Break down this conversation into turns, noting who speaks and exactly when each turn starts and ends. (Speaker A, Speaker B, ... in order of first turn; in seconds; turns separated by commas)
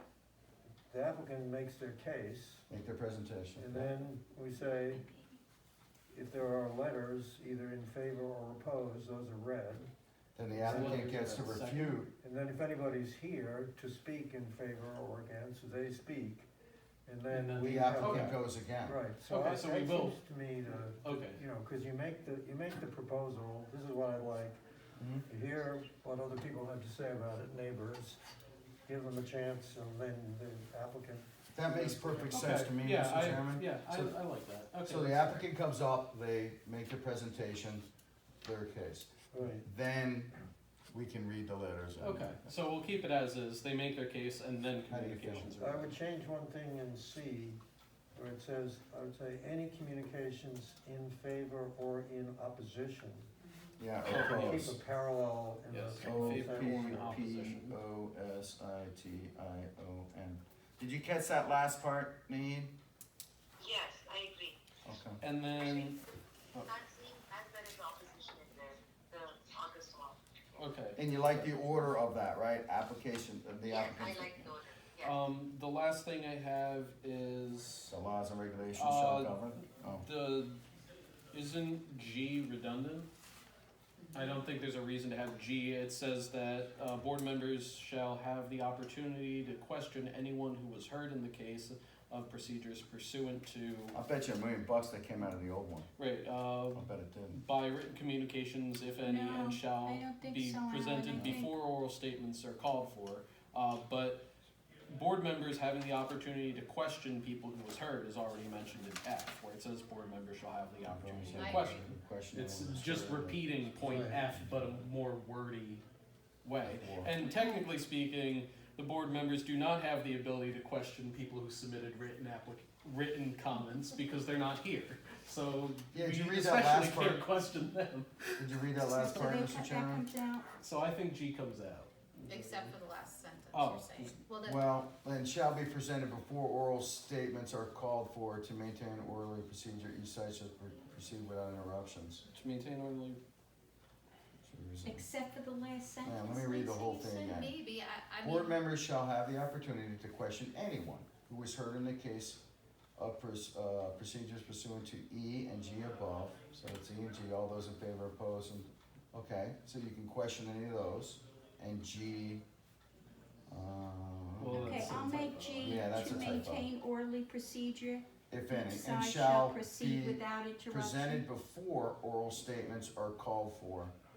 Speaker A: 0.9-2.7, Speaker B: 2.7-3.9, Speaker A: 3.6-5.0, Speaker A: 6.1-9.9, Speaker B: 10.4-12.1, Speaker A: 10.6-11.3, Speaker C: 10.6-12.0, Speaker A: 12.2-16.5, Speaker A: 17.1-24.6, Speaker C: 17.3-18.4, Speaker B: 17.6-19.0, Speaker C: 19.3-21.4, Speaker B: 25.0-25.2, Speaker A: 25.3-28.2, Speaker A: 28.9-32.6, Speaker B: 31.5-34.2, Speaker C: 32.3-35.5, Speaker B: 34.9-37.9, Speaker B: 38.4-40.3, Speaker A: 39.3-39.6, Speaker B: 40.9-42.4, Speaker C: 42.0-46.0, Speaker B: 44.9-45.5, Speaker A: 45.6-47.6, Speaker A: 48.1-53.3, Speaker B: 53.8-54.8, Speaker C: 54.0-54.8, Speaker A: 54.0-57.2, Speaker C: 55.7-57.8, Speaker B: 56.0-62.7, Speaker D: 63.6-64.6, Speaker B: 64.8-65.2, Speaker C: 65.2-66.0, Speaker D: 65.6-70.2, Speaker C: 70.6-71.9, Speaker B: 71.0-74.6, Speaker D: 73.7-75.1, Speaker C: 75.0-77.9, Speaker B: 77.9-80.1, Speaker C: 78.8-80.6, Speaker C: 81.3-83.1, Speaker E: 84.0-84.4, Speaker C: 84.1-94.0, Speaker B: 93.9-95.9, Speaker C: 96.0-104.3, Speaker B: 96.7-97.4, Speaker F: 99.0-101.6, Speaker B: 101.1-101.5, Speaker C: 104.9-115.8, Speaker B: 110.8-114.8, Speaker E: 111.4-111.8, Speaker A: 113.8-114.2, Speaker C: 116.4-128.6, Speaker B: 116.6-117.1, Speaker F: 117.2-117.6, Speaker F: 123.5-124.0, Speaker B: 125.9-127.3, Speaker B: 128.4-130.1, Speaker F: 128.8-130.5, Speaker C: 130.6-132.8, Speaker E: 132.3-134.6, Speaker C: 133.5-134.2, Speaker B: 134.4-142.2, Speaker C: 142.3-143.2, Speaker B: 144.4-145.1, Speaker F: 144.8-147.1, Speaker B: 146.0-147.6, Speaker E: 146.9-148.6, Speaker B: 148.2-152.4, Speaker B: 153.0-162.4, Speaker B: 163.5-165.0, Speaker C: 164.4-166.3, Speaker F: 164.5-171.3, Speaker B: 165.6-166.7, Speaker B: 168.3-173.9